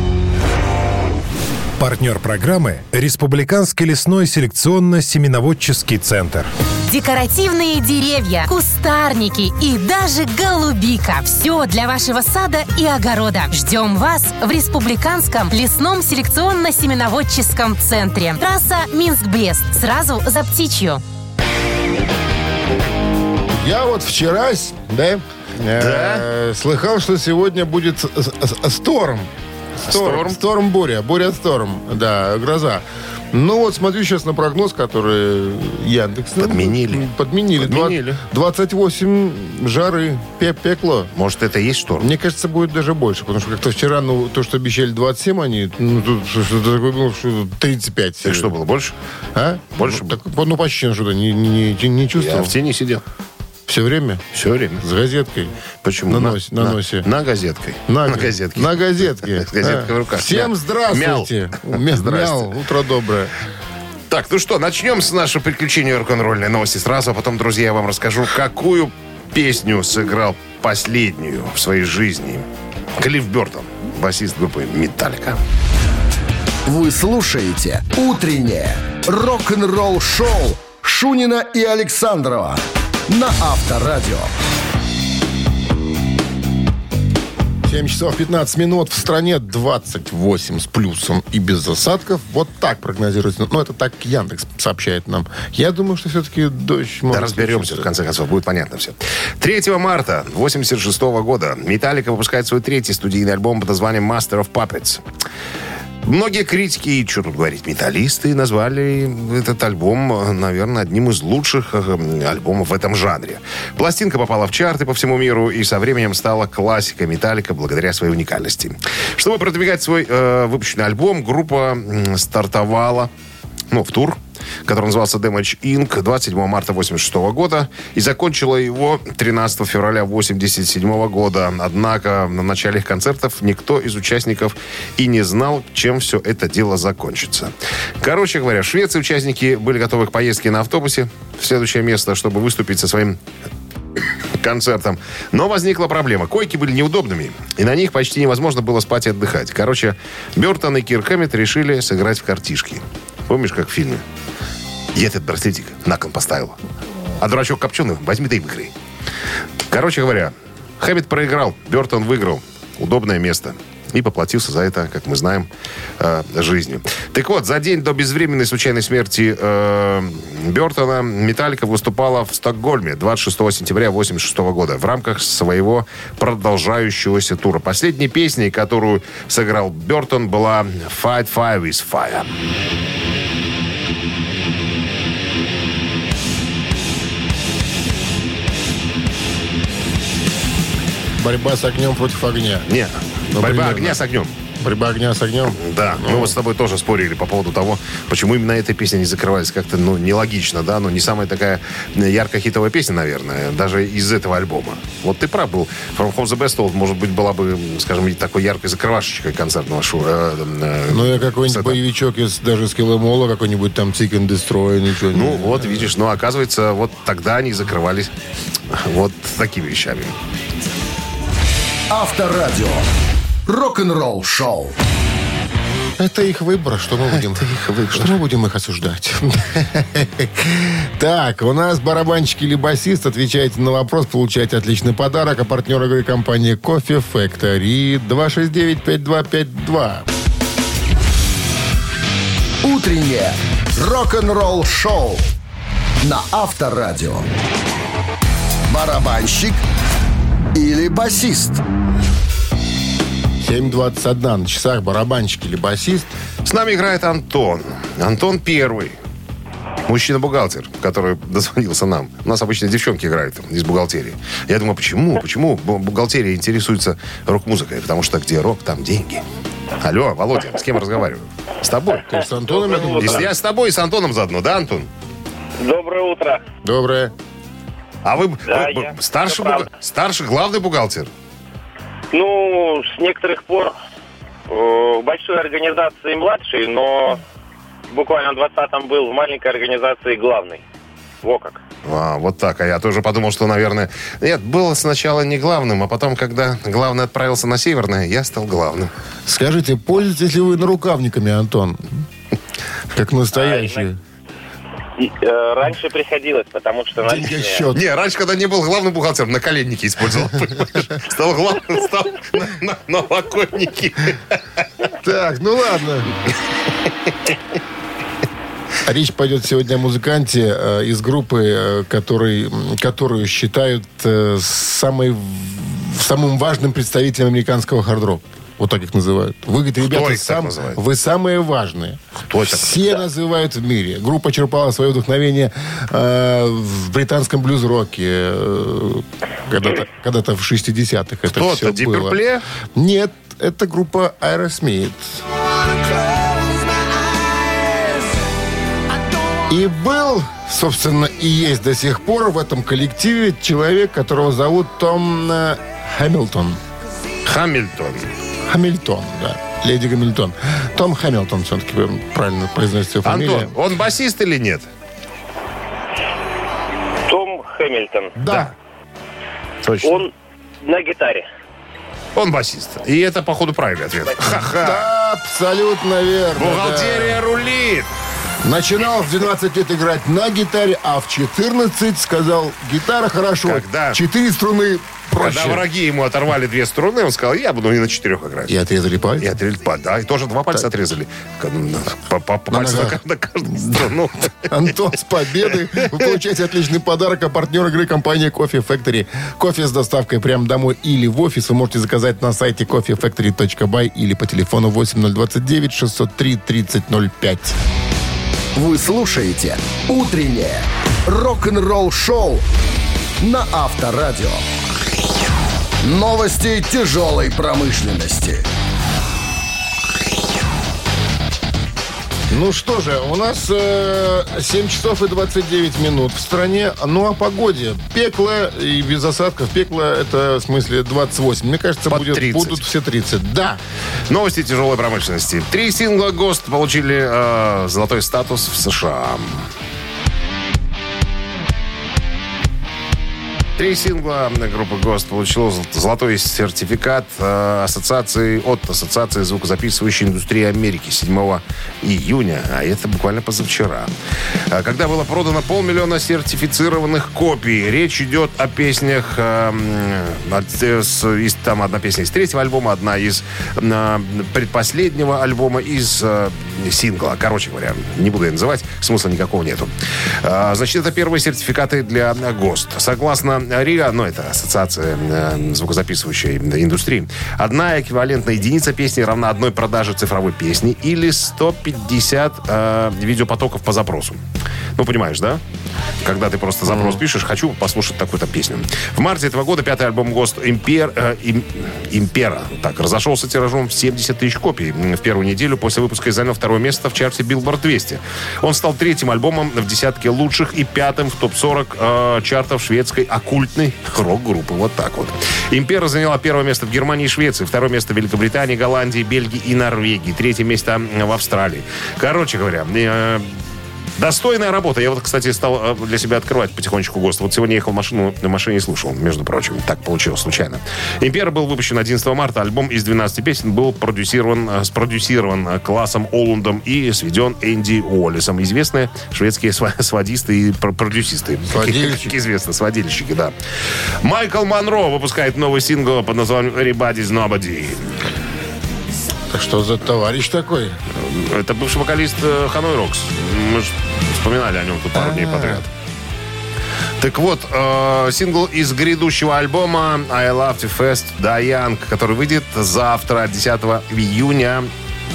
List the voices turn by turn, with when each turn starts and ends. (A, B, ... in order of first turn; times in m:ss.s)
0:01.8-0:06.5 A
0:06.9-0:21.0 B
0:23.5-0:29.3 C
0:25.8-0:26.2 D
0:29.8-0:30.4 D
0:29.8-0:41.1 C
0:36.4-0:38.2 D
0:41.2-0:42.1 D
0:42.0-0:48.5 C
0:48.2-0:49.0 D
0:49.4-0:52.6 C
0:49.8-0:50.2 D
0:52.2-0:53.0 D
0:53.7-0:54.2 C
0:54.3-0:54.8 D
0:54.8-0:55.5 C
0:55.8-1:02.5 D
0:56.1-0:57.1 C
0:57.9-1:03.3 C
1:04.1-1:12.4 D
1:13.0-1:15.4 D
1:16.7-1:24.3 E
1:27.6-1:37.9 C
1:37.1-1:45.0 D
1:46.0-2:03.1 D
2:03.7-2:23.2 D
2:24.4-2:34.0 D
2:35.0-2:36.6 D
2:37.2-2:38.7 D
2:39.7-2:45.5 D
2:46.0-3:02.3 D
3:11.2-3:12.7 C
3:12.7-3:14.3 D
3:13.3-3:14.0 C
3:14.6-3:16.3 C
3:15.6-3:31.8 D
3:30.9-3:35.9 C
3:35.1-3:38.1 D
3:38.7-3:40.2 D
3:41.9-3:42.9 E
3:43.5-3:44.8 E
3:46.0-4:00.1 C
3:47.5-3:47.9 D
4:02.6-4:05.3 E
4:06.0-4:07.3 E
4:08.7-4:09.6 E
4:10.5-4:11.6 E
4:13.4-4:16.1 C
4:16.5-4:19.0 D
4:19.9-4:29.2 D
4:29.8-4:32.1 D
4:32.1-4:33.3 C
4:32.5-4:33.3 F
4:33.0-4:34.9 D
4:35.6-4:36.4 F
4:36.6-4:37.1 C
4:38.0-4:41.1 D
4:38.5-4:39.7 F
4:42.1-4:43.8 F
4:44.5-4:47.2 F
4:47.9-4:50.6 F
4:51.2-4:51.6 F
4:51.8-4:58.9 D
4:59.3-5:01.8 C
5:02.9-5:04.0 C
5:03.3-5:03.9 F
5:05.0-5:07.7 F
5:07.0-5:07.8 C
5:07.7-5:14.9 D
5:15.0-5:16.1 C
5:18.8-5:42.2 C
5:29.8-5:30.8 D
5:32.3-5:33.0 D
5:41.3-5:42.4 D
5:42.8-5:45.2 C
5:49.5-5:56.6 C
5:57.2-5:58.1 D
5:58.5-6:03.6 C
6:03.0-6:04.7 D
6:07.1-6:08.1 F
6:08.2-6:08.5 C
6:08.3-6:08.5 D
6:09.6-6:10.0 D
6:09.8-6:10.1 F
6:10.6-6:11.3 F
6:12.2-6:14.9 D
6:14.5-6:17.2 C
6:16.4-6:17.9 D
6:18.4-6:25.6 C
6:23.4-6:24.0 D
6:25.2-6:28.6 D
6:28.5-6:29.3 C
6:29.2-6:34.7 D
6:32.5-6:33.0 C
6:33.5-6:33.9 C
6:34.5-6:47.6 C
6:48.6-6:52.4 E
6:53.2-6:54.5 E
6:55.8-6:58.4 E
7:02.3-7:13.6 C
7:11.9-7:12.6 D
7:14.1-7:19.5 D
7:23.6-7:33.9 D
7:34.5-7:49.7 D
7:50.2-8:04.2 D
8:04.8-8:05.4 D
8:06.0-8:33.4 D
8:06.7-8:07.0 C
8:34.0-8:53.3 D
8:51.5-8:52.1 C
8:54.0-8:58.0 D
8:59.3-9:00.8 C
9:00.9-9:05.7 D
9:04.9-9:05.6 C
9:07.0-9:14.7 D